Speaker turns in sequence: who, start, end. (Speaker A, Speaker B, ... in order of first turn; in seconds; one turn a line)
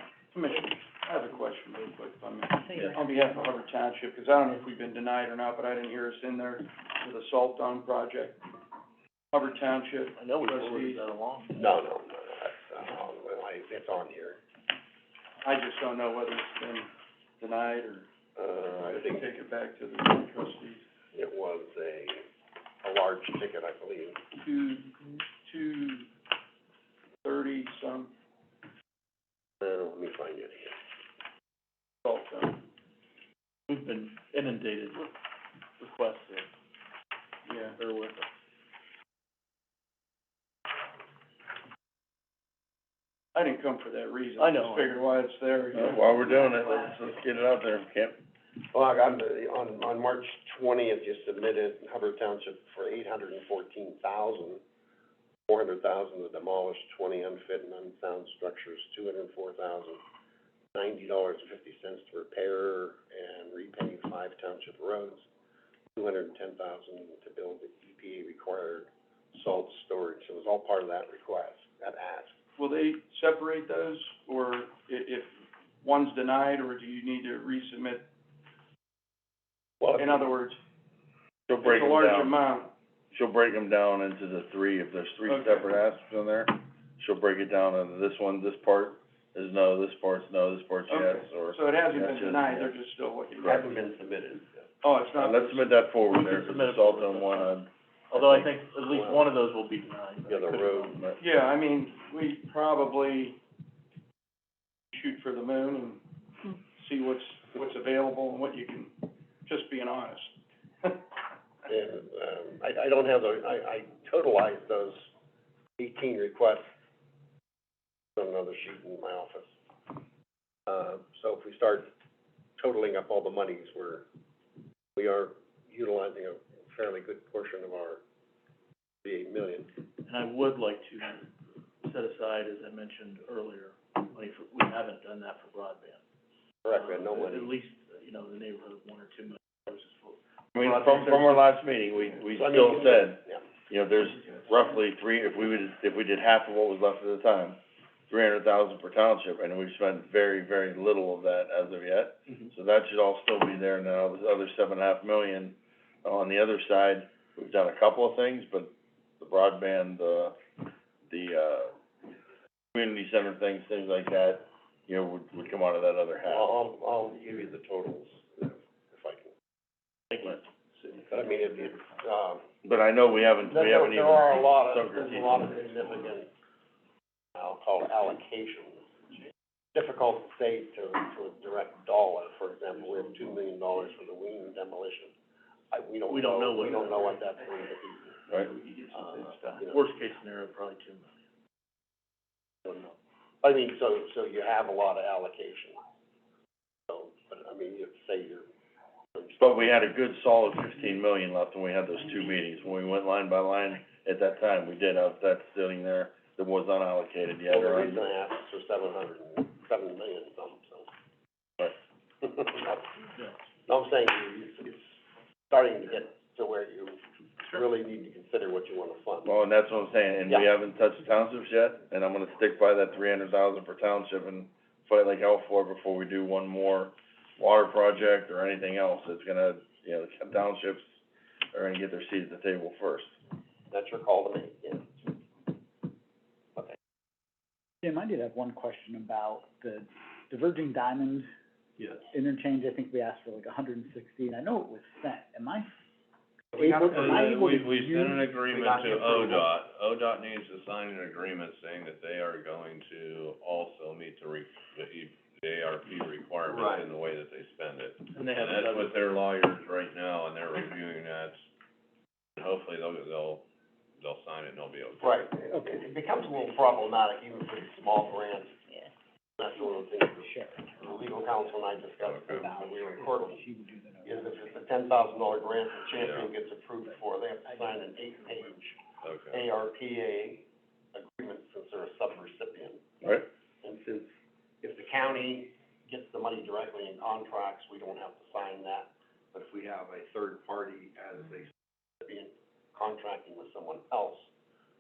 Speaker A: 0.3-8.5
Speaker A: 9.3-11.0
Speaker B: 10.1-11.6
Speaker C: 11.5-14.4
Speaker A: 15.4-18.1
Speaker C: 18.4-19.3
Speaker A: 18.8-20.9
Speaker C: 21.1-22.3
Speaker C: 22.8-24.2
Speaker A: 24.3-26.1
Speaker A: 27.2-28.1
Speaker C: 29.6-30.8
Speaker A: 32.0-32.7
Speaker B: 33.7-35.1
Speaker B: 35.8-36.5
Speaker A: 37.5-37.8
Speaker B: 37.7-38.3
Speaker A: 43.3-46.7
Speaker B: 44.4-45.0
Speaker D: 45.7-48.2
Speaker C: 48.7-54.6
Speaker C: 55.5-60.0
Speaker C: 60.7-65.2
Speaker C: 66.0-72.3
Speaker A: 72.6-78.1
Speaker C: 79.8-80.2
Speaker A: 79.9-80.6
Speaker D: 81.5-82.3
Speaker A: 81.5-82.7
Speaker D: 83.1-92.7
Speaker A: 85.2-85.8
Speaker A: 90.9-93.8
Speaker C: 93.5-94.7
Speaker A: 94.8-95.9
Speaker D: 95.2-98.5
Speaker B: 96.1-97.5
Speaker B: 98.1-100.9
Speaker C: 98.9-99.2
Speaker C: 100.3-101.0
Speaker D: 100.9-101.2
Speaker A: 101.2-103.4
Speaker A: 104.9-111.1
Speaker C: 111.7-115.1
Speaker C: 115.8-116.6
Speaker C: 118.2-119.5
Speaker C: 120.7-121.9
Speaker C: 122.6-124.1
Speaker C: 125.0-128.0
Speaker C: 129.0-129.7
Speaker B: 130.0-131.2
Speaker B: 131.8-136.0
Speaker C: 136.6-137.6
Speaker B: 136.7-140.2
Speaker D: 140.6-160.3
Speaker A: 140.6-141.4
Speaker C: 142.3-143.4
Speaker D: 161.1-161.7
Speaker D: 162.7-166.5
Speaker C: 166.2-169.3
Speaker C: 171.0-172.4
Speaker D: 172.6-175.5
Speaker C: 173.4-176.3
Speaker C: 177.3-178.9
Speaker C: 179.7-185.1
Speaker C: 185.7-188.2
Speaker B: 186.1-187.0
Speaker A: 188.4-189.3
Speaker C: 188.9-189.9
Speaker B: 189.0-191.2
Speaker C: 192.6-195.8
Speaker C: 196.9-198.5
Speaker C: 199.1-199.9
Speaker D: 199.4-208.0
Speaker C: 207.5-210.9
Speaker C: 212.2-212.9
Speaker C: 213.7-215.0
Speaker C: 215.5-219.3
Speaker D: 219.2-231.0
Speaker D: 231.5-233.1
Speaker C: 233.7-235.2
Speaker E: 237.8-241.3
Speaker E: 242.1-245.7
Speaker C: 246.5-247.2
Speaker E: 246.5-248.3
Speaker F: 246.9-261.4
Speaker C: 248.5-249.5
Speaker C: 256.5-256.9
Speaker B: 258.1-259.0
Speaker F: 262.4-263.4
Speaker F: 264.0-265.2
Speaker C: 265.0-268.6
Speaker C: 269.4-273.4
Speaker E: 270.2-271.0
Speaker F: 272.0-272.5
Speaker E: 272.3-274.6
Speaker C: 274.1-278.8
Speaker F: 275.9-276.3
Speaker E: 276.9-278.4
Speaker F: 279.0-279.4
Speaker C: 279.3-282.8
Speaker C: 283.6-294.3